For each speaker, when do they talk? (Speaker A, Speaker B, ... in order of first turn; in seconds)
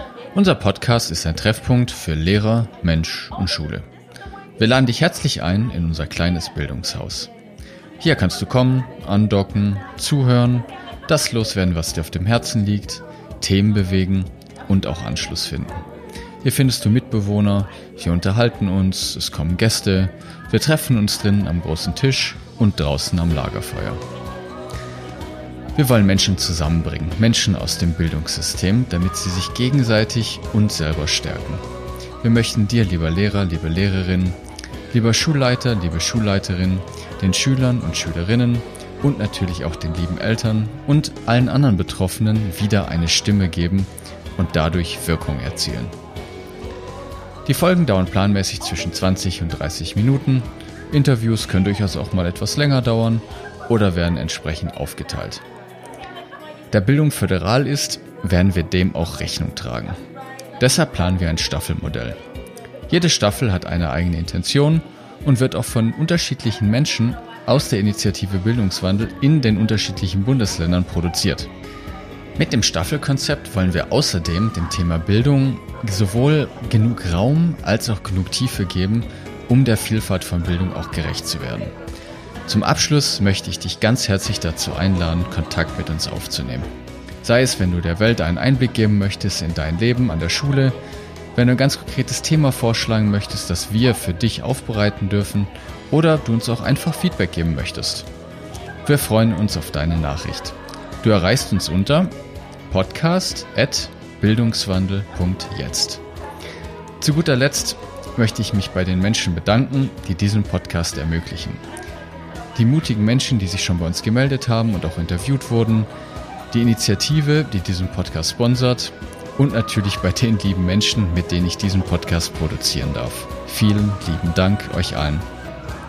Speaker A: 0.3-3.9, 4.6-7.3, 8.0-15.8, 16.4-24.0, 25.7-31.6, 32.2-34.4, 34.9-45.9, 47.5-55.4, 56.7-60.0, 60.6-62.2, 62.9-71.5, 72.4-81.7, 82.5-86.7, 87.2-90.8, 91.3-98.1, 98.8-102.1, 102.7-106.0, 107.0-111.6, 112.5-115.9, 116.5-125.3